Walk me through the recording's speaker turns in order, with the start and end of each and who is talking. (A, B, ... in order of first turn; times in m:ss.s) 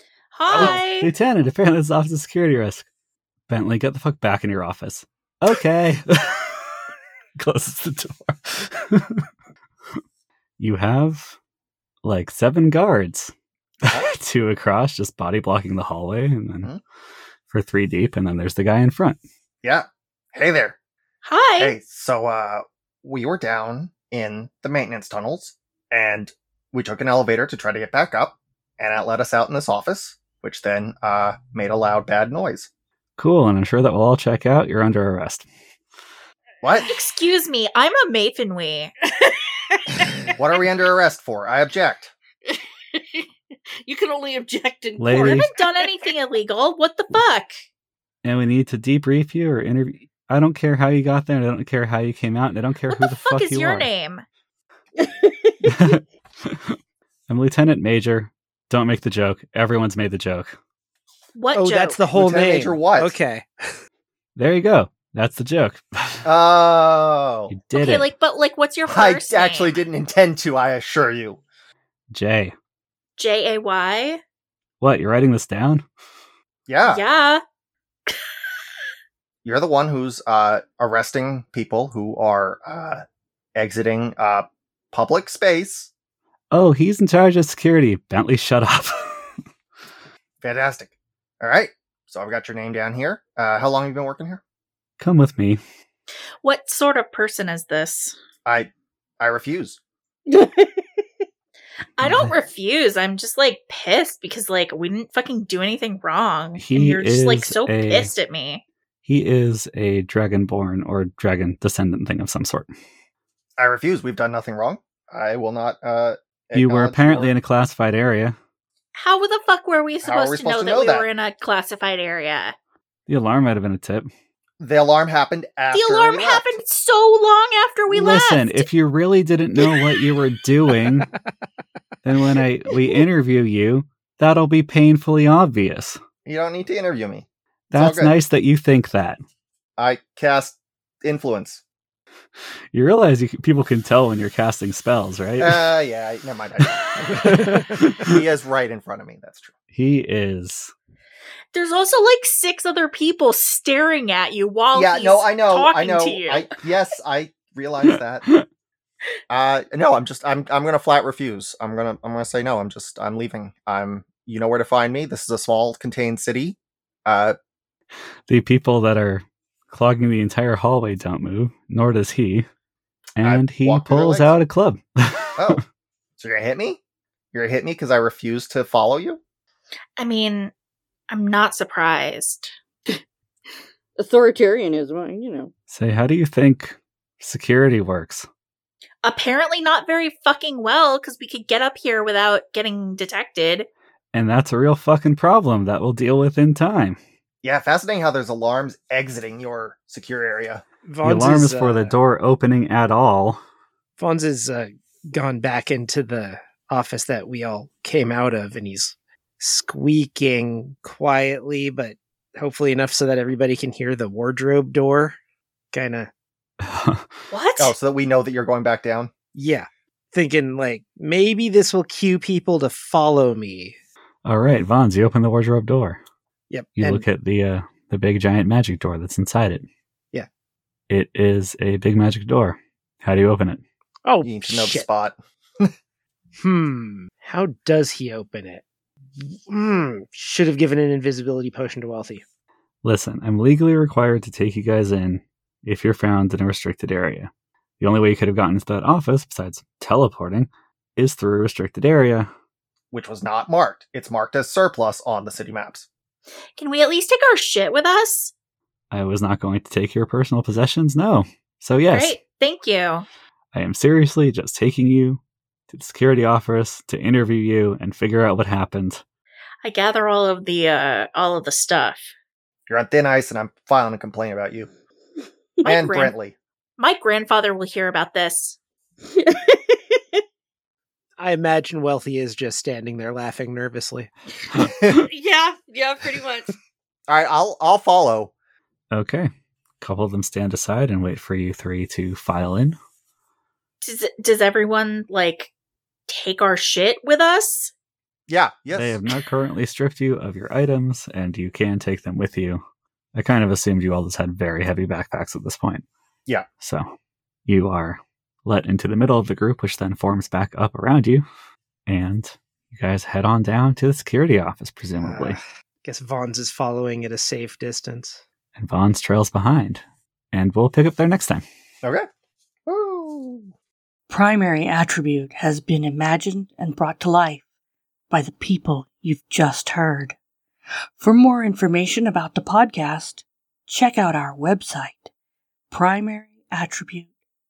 0:00.3-0:01.1 A
0:00.4-0:00.8 B
0:00.5-0:02.8 C
0:03.5-0:06.8 C
0:07.4-0:09.2 C
0:10.6-0:11.3 C
0:12.0-0:16.7 C
0:17.5-0:19.2 C
0:19.6-0:20.8 B
0:21.2-0:21.8 A
0:21.6-0:32.7 B
0:33.2-0:35.4 C
0:36.6-0:36.9 B
0:36.9-0:38.9 A
0:39.1-0:40.3 D
0:40.4-0:42.1 B
0:42.4-0:43.3 D
0:43.8-0:46.1 D
0:45.0-0:45.5 C
0:45.2-0:47.6 A
0:48.2-0:53.9 C
0:52.9-0:54.2 A
0:55.0-0:55.7 D
0:55.6-0:56.8 C
0:57.3-1:00.6 C
1:01.3-1:02.0 A
1:01.5-1:03.8 E
1:02.1-1:03.1 B
1:04.4-1:06.2 C
1:06.2-1:07.5 B
1:07.5-1:08.1 C
1:07.7-1:09.8 A
1:08.9-1:11.4 B
1:12.1-1:12.5 C
1:13.2-1:14.2 A
1:14.8-1:15.8 C
1:16.7-1:17.0 B
1:16.8-1:17.4 A
1:19.4-1:23.0 B
1:23.5-1:25.9 B
1:26.5-1:29.3 C
1:30.4-1:34.4 B
1:35.0-1:35.6 C
1:36.4-1:38.2 A
1:38.4-1:39.8 B
1:40.3-1:40.8 D
1:42.0-1:48.6 A
1:42.0-1:42.3 C
1:46.6-1:48.1 C
1:49.0-1:52.7 C
1:53.6-1:57.3 B
1:56.5-1:58.4 C
1:58.9-2:02.5 A
2:00.0-2:01.1 B
2:03.1-2:04.1 C
2:04.6-2:06.5 B
2:05.7-2:08.7 A
2:07.9-2:11.1 C
2:12.0-2:16.0 C
2:16.2-2:18.2 B
2:17.7-2:19.2 C
2:19.8-2:21.6 B
2:22.7-2:25.7 C
2:25.4-2:29.5 B
2:26.7-2:28.2 C
2:29.7-2:30.7 C
2:31.5-2:36.5 A
2:34.7-2:38.3 B
2:37.9-2:38.4 C
2:39.3-2:47.4 B
2:48.3-2:52.4 C
2:53.2-2:55.6 C
2:53.2-2:54.3 B
2:55.4-2:55.6 B
2:56.2-2:56.8 B
2:57.3-2:59.2 B
3:00.0-3:00.5 A
3:01.1-3:02.5 A
3:04.0-3:05.5 D
3:05.7-3:08.2 C
3:09.0-3:13.7 A
3:14.1-3:17.0 C
3:17.4-3:20.6 B
3:20.8-3:21.9 E
3:21.0-3:23.4 C
3:24.0-3:35.2 E
3:35.7-3:36.1 E
3:36.6-3:37.1 C
3:37.3-3:37.7 A
3:37.6-3:39.1 B
3:39.3-3:43.8 E
3:44.2-3:46.0 C
3:46.5-3:47.0 E
3:46.8-3:49.6 C
3:50.9-3:53.6 C
3:54.0-3:54.8 E
3:54.2-3:55.7 B
3:56.4-3:58.6 E
3:59.2-4:02.2 E
4:02.8-4:12.3 C
4:12.9-4:15.9 B
4:16.6-4:18.3 A
4:18.9-4:22.2 C
4:21.9-4:23.0 A
4:23.5-4:29.0 C
4:29.6-4:32.1 A
4:32.7-4:34.7 B
4:35.6-4:36.1 A
4:35.6-4:36.3 B
4:36.8-4:38.6 A
4:39.1-4:40.2 D
4:41.2-4:44.1 E
4:44.5-4:46.6 D
4:47.1-4:48.3 B
4:48.9-4:49.3 C
4:49.8-4:52.8 C
4:53.8-4:55.5 A
4:56.1-4:57.7 A
4:58.3-4:59.0 B
4:58.7-5:02.6 C
5:03.1-5:05.8 C
5:06.6-5:06.9 C
5:07.5-5:11.2 C
5:11.9-5:15.4 C
5:15.1-5:15.4 B
5:15.8-5:18.2 E
5:18.6-5:21.4 C
5:22.7-5:23.5 B
5:24.1-5:27.4 F
5:28.1-5:30.2 F
5:31.0-5:35.1 F
5:35.7-5:37.1 F